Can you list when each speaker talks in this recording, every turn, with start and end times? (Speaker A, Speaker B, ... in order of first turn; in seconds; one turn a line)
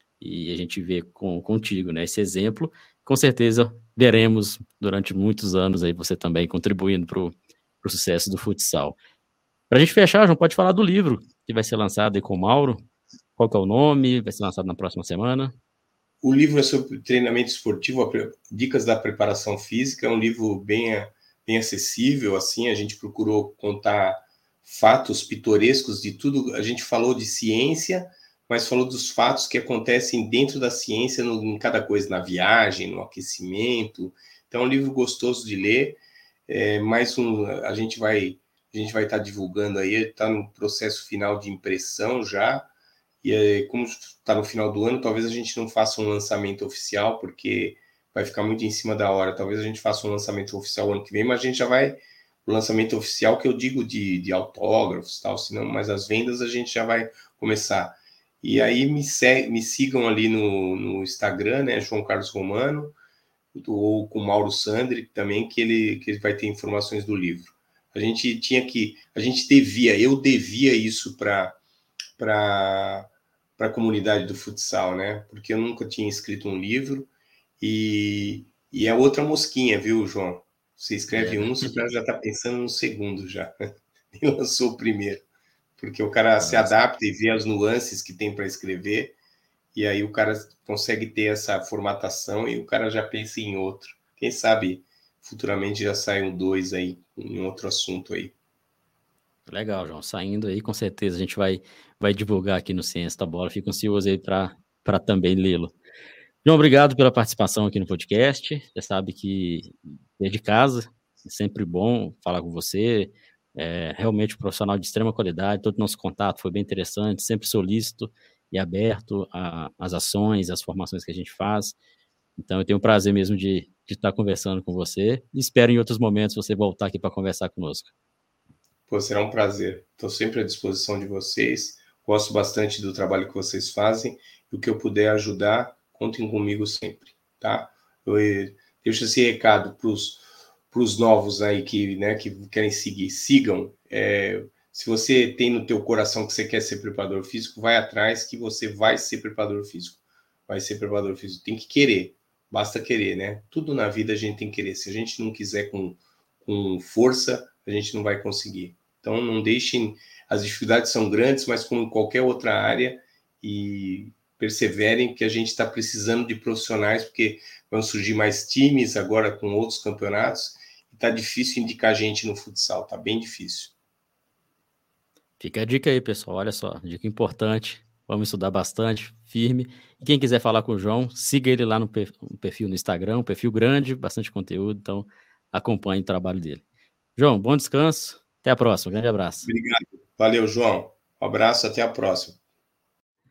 Speaker A: 0.2-9.0
Speaker A: 9.7-12.8
Speaker A: 13.4-15.5
Speaker B: 16.2-42.7
Speaker B: 43.2-63.0
Speaker B: 63.5-71.6
Speaker B: 72.2-77.1
Speaker B: 77.6-83.5
Speaker A: 81.1-81.7
Speaker B: 84.1-85.2
Speaker B: 85.8-89.2
Speaker A: 86.4-86.7
Speaker B: 89.7-98.3
Speaker A: 99.5-105.8
Speaker A: 106.4-121.8
Speaker A: 122.4-127.9
Speaker B: 128.9-173.7
Speaker A: 175.4-186.6
Speaker A: 187.2-189.5
Speaker B: 189.5-192.4